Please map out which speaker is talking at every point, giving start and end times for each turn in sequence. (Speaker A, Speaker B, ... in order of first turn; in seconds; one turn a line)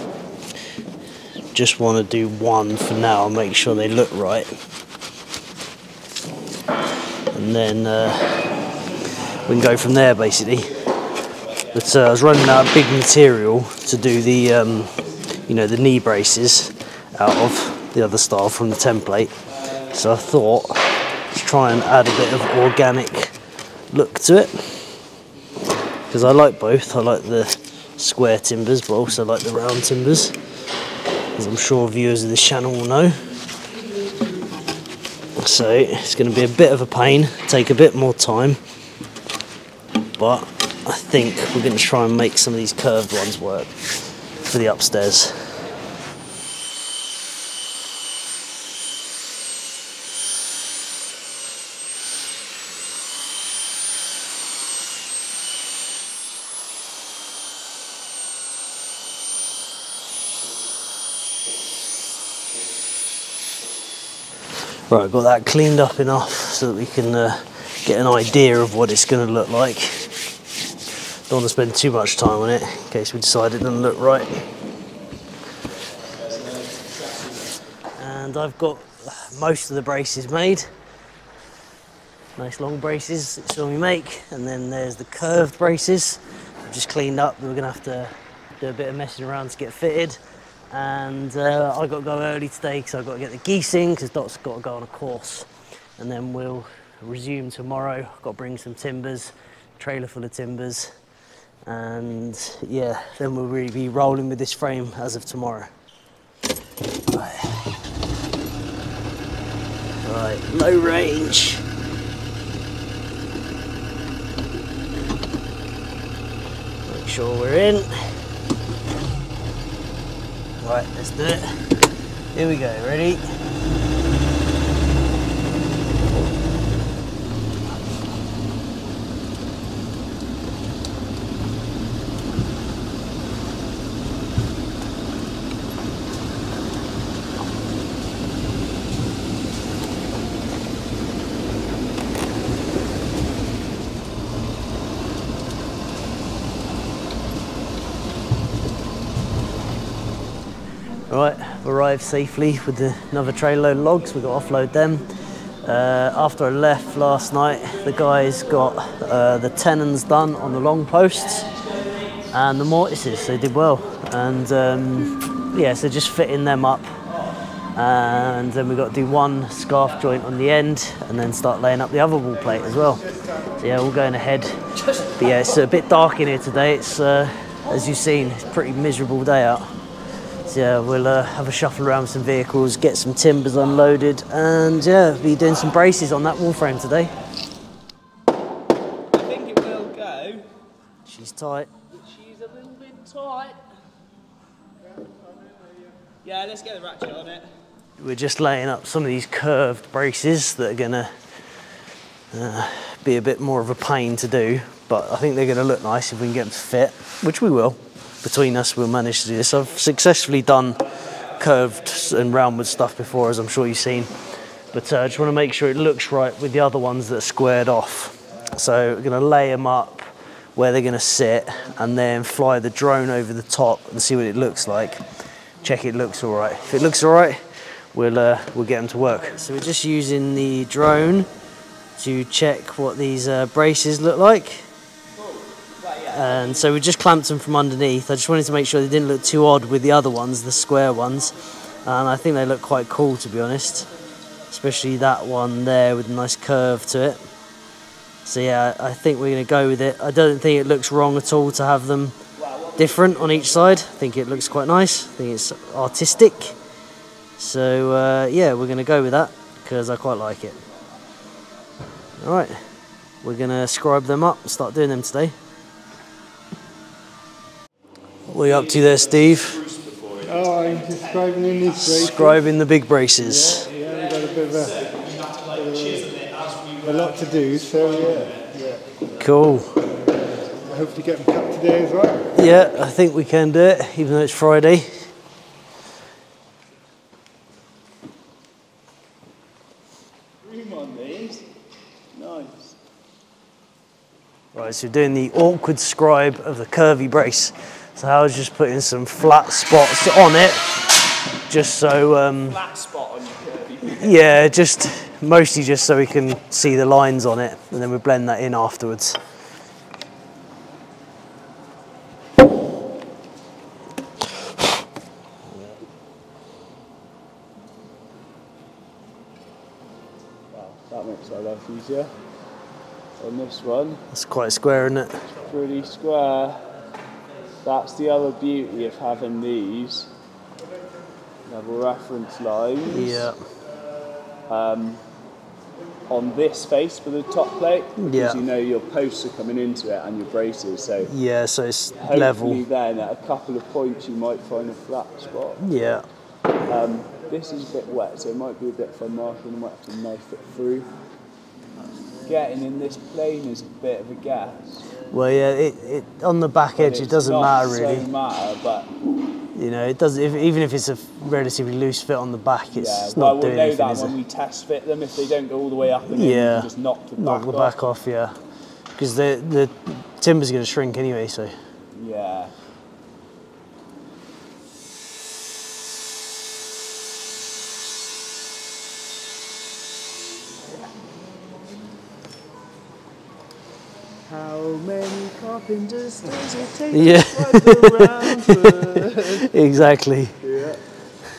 Speaker A: 1.5-4.5
Speaker A: 7.3-8.4
Speaker A: 9.3-10.7
Speaker A: 11.7-23.4
Speaker A: 23.9-25.0
Speaker A: 26.1-30.4
Speaker A: 31.3-33.3
Speaker A: 35.4-38.6
Speaker A: 40.2-43.9
Speaker A: 44.4-45.5
Speaker A: 64.9-70.1
Speaker A: 71.3-74.4
Speaker B: 76.2-77.4
Speaker A: 78.0-80.7
Speaker A: 82.3-101.0
Speaker A: 101.6-105.7
Speaker A: 107.1-107.7
Speaker A: 110.0-111.6
Speaker A: 116.8-117.9
Speaker A: 120.6-121.7
Speaker A: 122.3-123.2
Speaker A: 151.1-155.1
Speaker A: 155.6-161.5
Speaker A: 162.3-167.0
Speaker A: 167.7-173.1
Speaker A: 173.6-179.7
Speaker A: 180.4-187.1
Speaker B: 189.1-190.5
Speaker A: 191.1-191.7
Speaker B: 191.9-193.6
Speaker C: 195.0-195.8
Speaker B: 196.2-197.5
Speaker A: 198.0-201.1
Speaker A: 202.3-214.1
Speaker A: 214.7-225.0
Speaker A: 225.6-231.3
Speaker A: 232.0-234.7
Speaker B: 235.1-236.6
Speaker A: 236.1-243.9
Speaker A: 244.5-247.2
Speaker A: 248.2-252.2
Speaker B: 252.4-255.0
Speaker A: 252.8-256.5
Speaker A: 257.4-260.6
Speaker A: 262.2-262.6
Speaker A: 263.2-265.4
Speaker A: 268.3-269.6
Speaker B: 268.4-272.3
Speaker C: 270.2-272.4
Speaker A: 271.8-273.6
Speaker C: 273.2-274.9
Speaker B: 273.8-278.5
Speaker C: 275.5-276.1
Speaker C: 276.8-278.8
Speaker A: 279.2-279.8
Speaker C: 280.5-282.4
Speaker A: 282.3-285.1
Speaker B: 290.4-291.4
Speaker B: 292.1-292.8
Speaker A: 294.5-300.7
Speaker A: 301.5-302.6
Speaker B: 302.5-304.2
Speaker A: 304.0-309.2
Speaker A: 315.5-315.8
Speaker B: 320.5-322.1
Speaker B: 323.2-324.0
Speaker A: 324.1-325.2
Speaker B: 325.3-326.6
Speaker B: 327.6-330.1
Speaker B: 331.4-333.3
Speaker A: 332.9-333.4
Speaker B: 334.5-335.0
Speaker B: 336.1-341.1
Speaker A: 338.0-338.4
Speaker A: 341.1-342.6
Speaker B: 342.0-345.6
Speaker A: 345.6-346.0
Speaker B: 346.6-350.9
Speaker B: 352.2-354.9
Speaker A: 355.1-358.1
Speaker B: 356.8-358.9
Speaker A: 359.5-364.2
Speaker B: 362.7-367.7
Speaker A: 366.1-368.4
Speaker A: 368.9-371.6
Speaker B: 371.9-372.5
Speaker B: 384.2-389.5
Speaker A: 386.9-390.4
Speaker B: 390.4-390.8